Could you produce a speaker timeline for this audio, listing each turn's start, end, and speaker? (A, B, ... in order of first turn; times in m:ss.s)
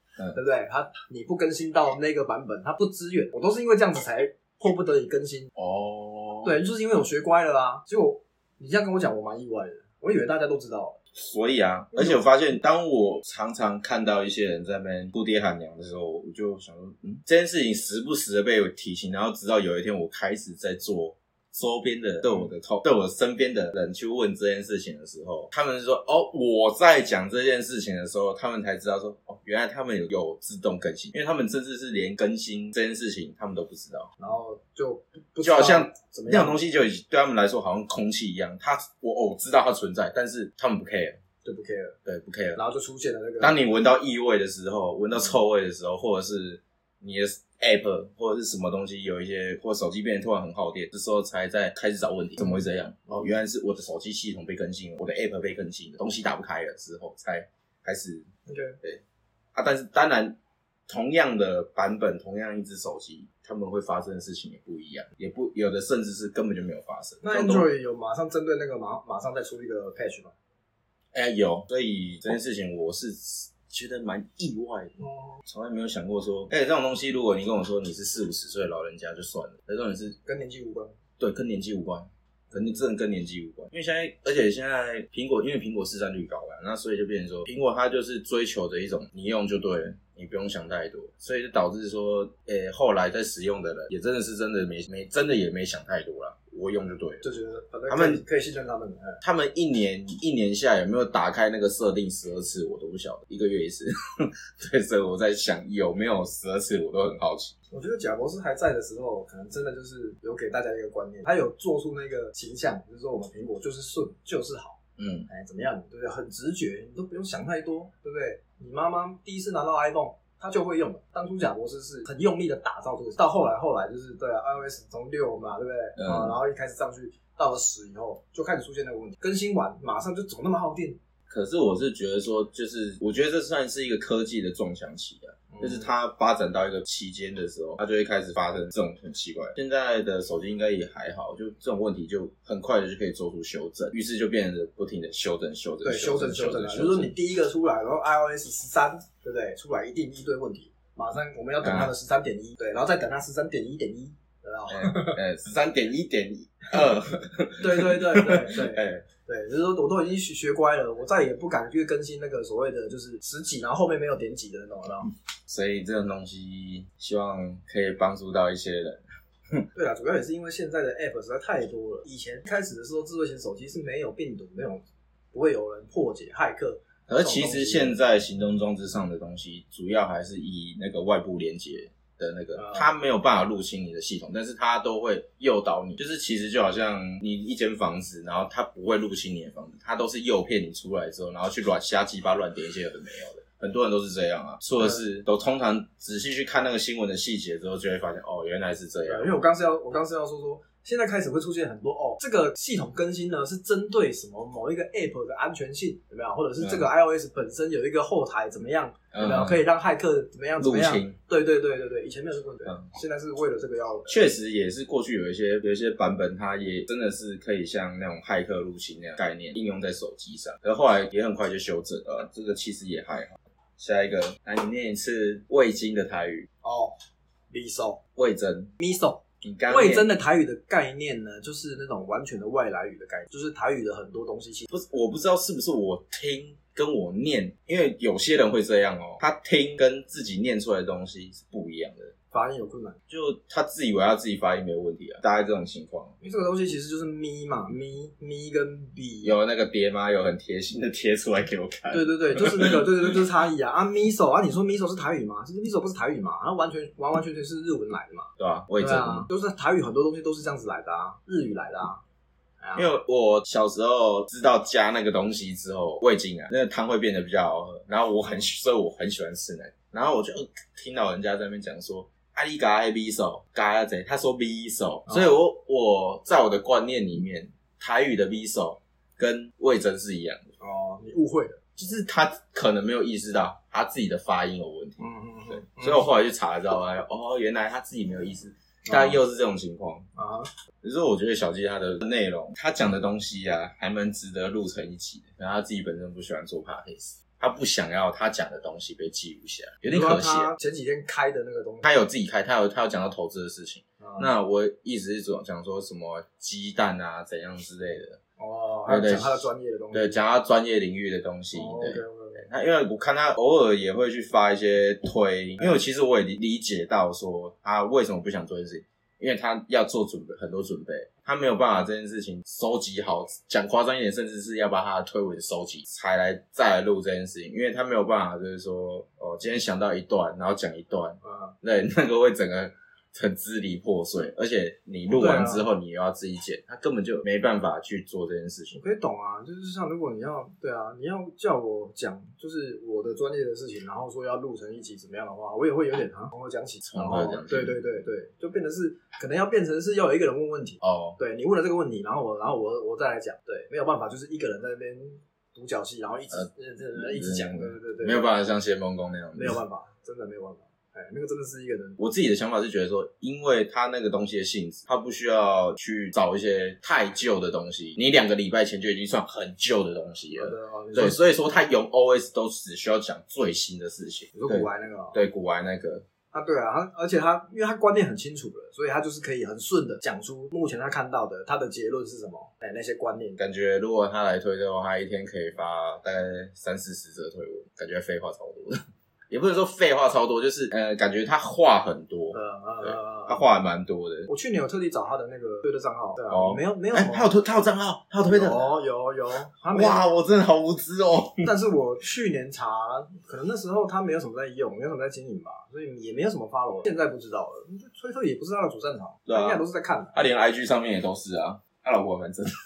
0:00.3-0:05.5 A
0:05.6-0:06.6 B
0:06.4-0:11.0 A
0:11.1-0:34.1 B
0:11.9-0:12.2 A
0:34.2-0:36.6 A
0:35.4-0:41.2 B
0:41.4-0:41.9 A
0:42.0-0:42.6 B
0:42.6-0:43.6 A
0:43.4-0:58.3 B
0:58.5-0:58.8 A
0:59.5-1:00.4 B
1:00.9-1:07.7 B
1:07.2-1:10.3 A
1:11.1-1:20.2 B
1:15.0-1:15.4 A
1:20.2-1:20.9 A
1:21.2-1:37.2 B
1:37.2-1:39.2 A
1:37.9-1:38.2 B
1:39.2-1:47.5 B
1:47.7-2:11.0 A
1:55.0-1:55.3 B
2:06.0-2:06.4 B
2:11.3-2:27.1 B
2:15.5-2:15.9 A
2:25.8-2:35.2 A
2:31.6-2:31.9 B
2:34.7-2:39.1 B
2:37.6-2:45.1 A
2:45.5-2:49.6 B
2:49.7-2:58.0 A
2:57.1-3:19.3 B
3:02.5-3:02.9 A
3:19.0-3:34.1 A
3:26.6-3:26.9 B
3:29.1-3:29.6 B
3:30.6-3:31.2 B
3:34.1-3:46.5 B
3:46.6-3:46.9 A
3:47.5-3:48.0 A
3:48.2-3:48.7 B
3:48.8-3:54.7 A
3:49.4-3:50.1 B
3:54.7-4:02.1 B
4:02.3-4:03.0 A
4:03.1-4:06.1 B
4:06.2-4:09.3 A
4:09.2-4:12.8 B
4:11.9-4:22.0 A
4:18.4-4:19.3 B
4:22.6-4:22.9 A
4:22.8-4:40.5 B
4:35.1-4:35.3 A
4:40.6-4:41.6 A
4:41.8-4:50.1 B
4:45.0-4:46.1 A
4:48.9-4:49.2 A
4:50.2-4:50.5 A
4:50.8-5:00.5 B
4:59.9-5:01.9 A
5:01.8-5:08.2 B
5:04.0-5:04.3 A
5:08.4-5:10.2 A
5:08.9-5:38.8 B
5:11.5-5:12.4 A
5:31.2-5:31.5 A
5:35.1-5:35.6 A
5:38.7-5:58.3 A
5:46.8-5:47.8 B
5:50.8-5:51.2 B
5:56.3-5:59.6 B
5:59.3-6:02.0 A
6:02.0-6:16.0 B
6:10.4-6:11.2 A
6:14.3-6:15.2 A
6:16.3-6:23.4 A
6:23.4-6:28.8 B
6:29.3-6:34.3 B
6:32.3-6:33.4 A
6:34.3-6:37.3 A
6:36.3-6:38.7 B
6:38.2-6:40.1 A
6:39.7-6:41.5 B
6:41.4-6:50.1 A
6:49.3-6:49.6 B
6:50.1-6:52.5 B